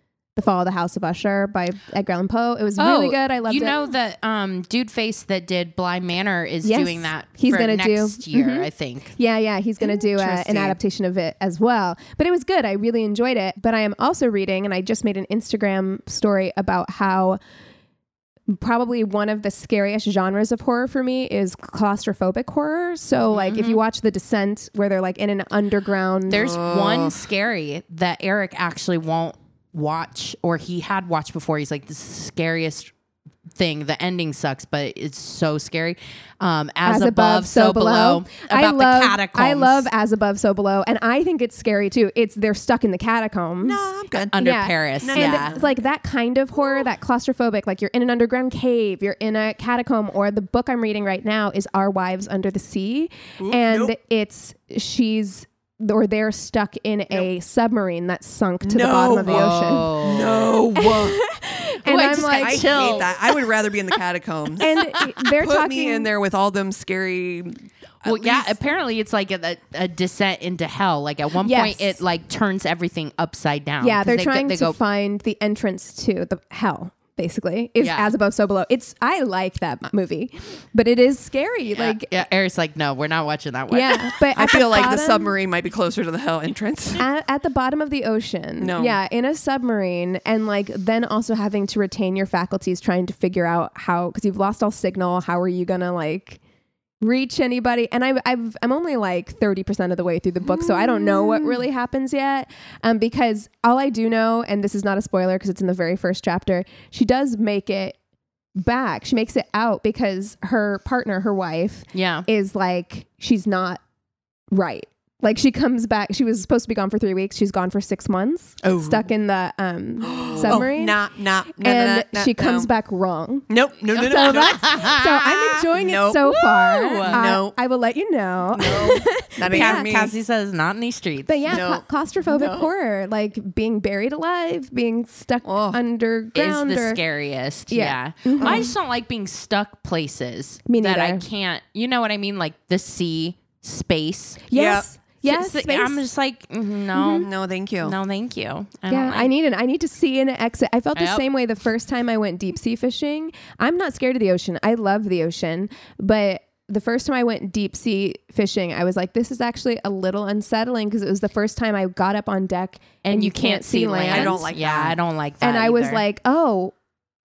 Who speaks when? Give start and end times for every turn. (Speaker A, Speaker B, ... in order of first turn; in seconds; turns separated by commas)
Speaker A: 0.4-3.9, Speaker B: 2.8-9.2, Speaker A: 6.6-17.4, Speaker C: 10.2-10.8, Speaker A: 18.5-26.5, Speaker B: 23.3-23.8, Speaker B: 26.3-32.9, Speaker C: 26.3-27.3, Speaker B: 33.6-39.9, Speaker A: 36.9-60.0, Speaker C: 43.6-44.4, Speaker B: 44.3-45.6, Speaker C: 45.0-45.7, Speaker C: 53.4-54.0, Speaker C: 58.6-61.2, Speaker B: 59.2-60.6, Speaker A: 60.8-63.2, Speaker B: 61.9-63.2, Speaker C: 62.1-68.6, Speaker A: 64.6-66.1, Speaker B: 68.0-74.8, Speaker A: 71.4-72.0, Speaker A: 73.8-82.3, Speaker B: 77.8-78.1, Speaker B: 81.8-84.0, Speaker A: 83.7-85.3, Speaker C: 84.3-87.1, Speaker A: 87.0-96.4, Speaker C: 88.6-89.0, Speaker A: 97.0-108.0, Speaker A: 108.6-113.8, Speaker B: 111.9-112.3, Speaker A: 114.5-129.9, Speaker C: 118.6-119.1, Speaker C: 120.0-122.7, Speaker C: 123.5-126.4, Speaker B: 123.9-125.4, Speaker B: 126.5-127.2, Speaker C: 127.0-127.6, Speaker C: 128.5-130.2, Speaker B: 129.5-131.6, Speaker A: 131.3-137.0, Speaker C: 131.5-132.7, Speaker C: 135.4-135.8, Speaker B: 136.3-144.4, Speaker A: 137.7-138.7, Speaker C: 138.4-138.7, Speaker A: 140.7-141.2, Speaker A: 144.5-146.0, Speaker C: 144.5-144.9, Speaker B: 145.2-147.3, Speaker A: 146.9-147.3, Speaker C: 147.2-148.0, Speaker B: 147.8-149.3, Speaker A: 148.9-164.5, Speaker B: 150.9-151.2, Speaker B: 163.0-166.0, Speaker C: 164.1-165.0, Speaker A: 165.4-166.7